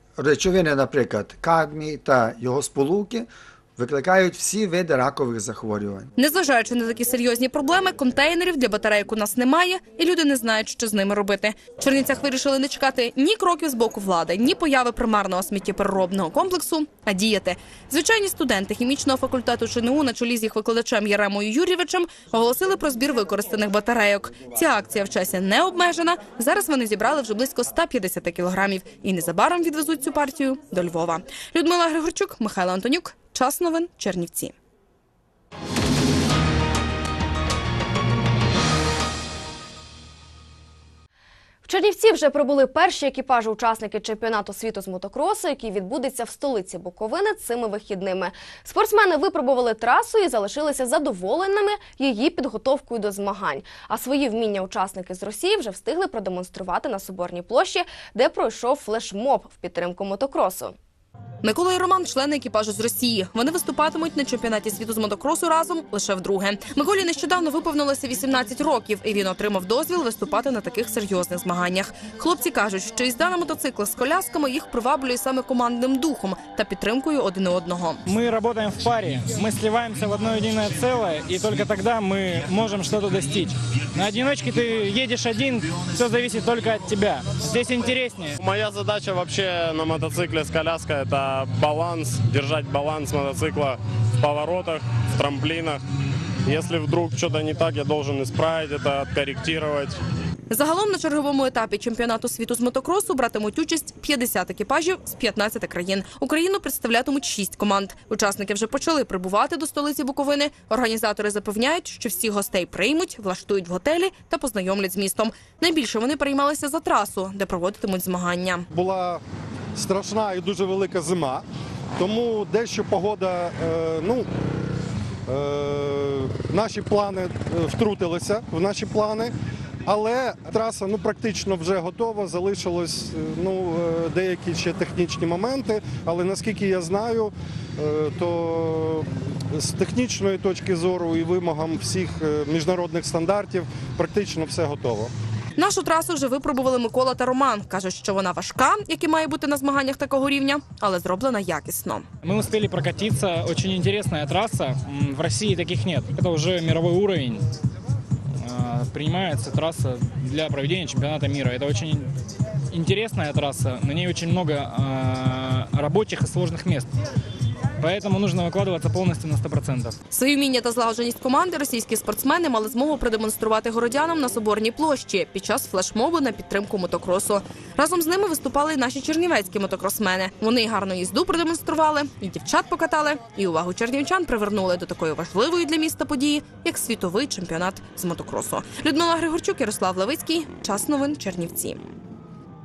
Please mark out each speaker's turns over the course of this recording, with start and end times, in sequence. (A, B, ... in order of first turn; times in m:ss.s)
0:00.2-0:06.1 A
0:06.2-0:34.5 B
0:41.6-1:00.8 C
1:01.4-1:18.0 B
1:18.0-1:28.4 D
1:28.4-1:35.8 E
1:36.5-1:40.0 E
1:40.5-1:58.6 B
1:58.7-1:59.2 F
1:59.8-2:01.4 F
2:02.0-2:04.3 F
2:05.3-2:09.3 F
2:09.9-2:25.1 F
2:25.6-2:32.1 B
2:32.2-2:37.4 D
2:38.4-2:42.1 D
2:42.7-2:46.9 D
2:47.8-2:50.0 D
2:50.1-3:11.8 B